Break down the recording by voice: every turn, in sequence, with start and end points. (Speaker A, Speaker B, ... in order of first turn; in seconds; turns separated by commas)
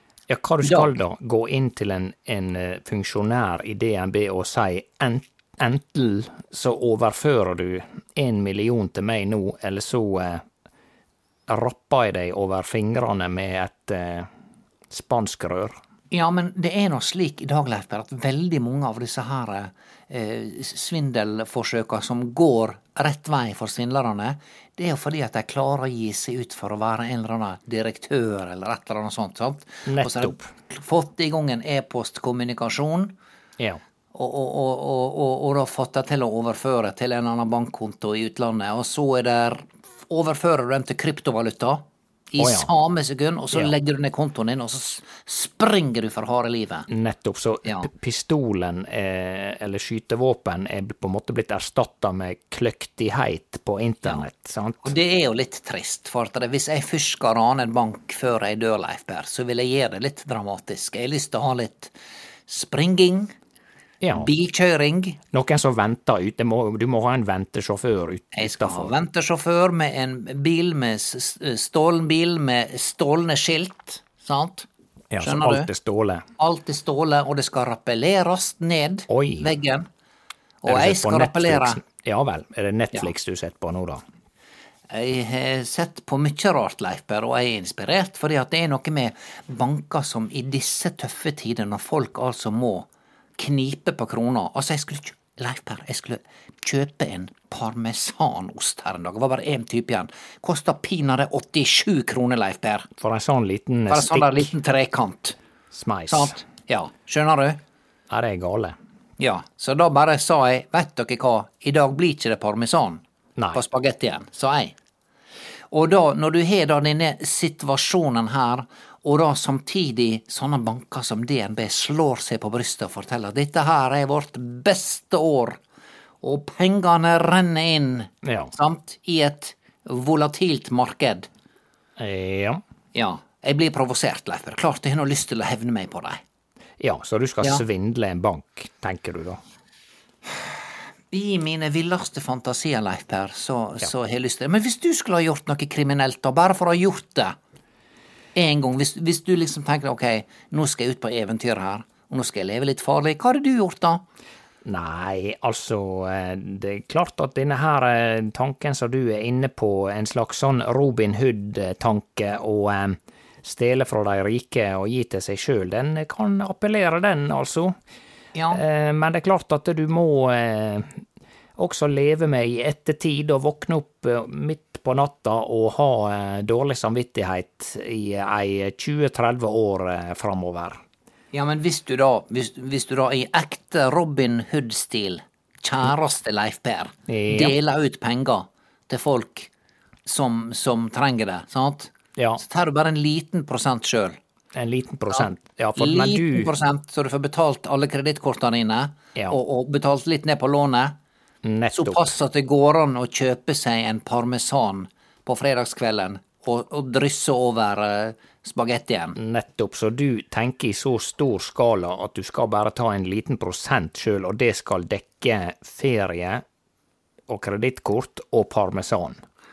Speaker A: 0.3-10.4, Speaker B: 0.6-0.9, Speaker A: 11.5-14.3, Speaker A: 14.9-15.8, Speaker B: 16.1-33.1, Speaker A: 29.9-30.5, Speaker B: 34.1-46.9, Speaker A: 42.4-42.7, Speaker A: 46.9-54.9, Speaker B: 54.8-61.9, Speaker B: 62.5-63.3, Speaker A: 64.0-64.3, Speaker B: 64.1-65.2, Speaker A: 65.3-69.0, Speaker B: 68.3-74.7, Speaker A: 75.1-76.3, Speaker B: 75.2-75.7, Speaker B: 76.4-79.9, Speaker A: 79.1-79.5, Speaker B: 80.6-81.8, Speaker A: 80.7-84.0, Speaker B: 84.9-102.9, Speaker A: 103.0-104.5, Speaker B: 103.9-105.4, Speaker A: 105.7-106.4, Speaker B: 106.1-107.6, Speaker A: 108.1-108.8, Speaker B: 109.2-113.0, Speaker B: 113.5-114.7, Speaker B: 115.7-125.6, Speaker B: 126.2-131.3, Speaker A: 128.2-128.5, Speaker A: 132.0-132.6, Speaker B: 132.9-136.2, Speaker A: 136.8-139.4, Speaker B: 141.1-147.4, Speaker B: 148.3-154.0, Speaker A: 154.6-167.7, Speaker B: 168.3-168.6, Speaker A: 168.5-171.0, Speaker A: 171.6-180.8, Speaker B: 181.3-189.5, Speaker A: 187.1-187.6, Speaker B: 190.1-194.2, Speaker A: 192.2-192.4, Speaker A: 194.5-196.5, Speaker B: 195.1-200.9, Speaker A: 201.4-202.2, Speaker B: 201.7-209.2, Speaker A: 209.2-216.4, Speaker A: 217.3-219.2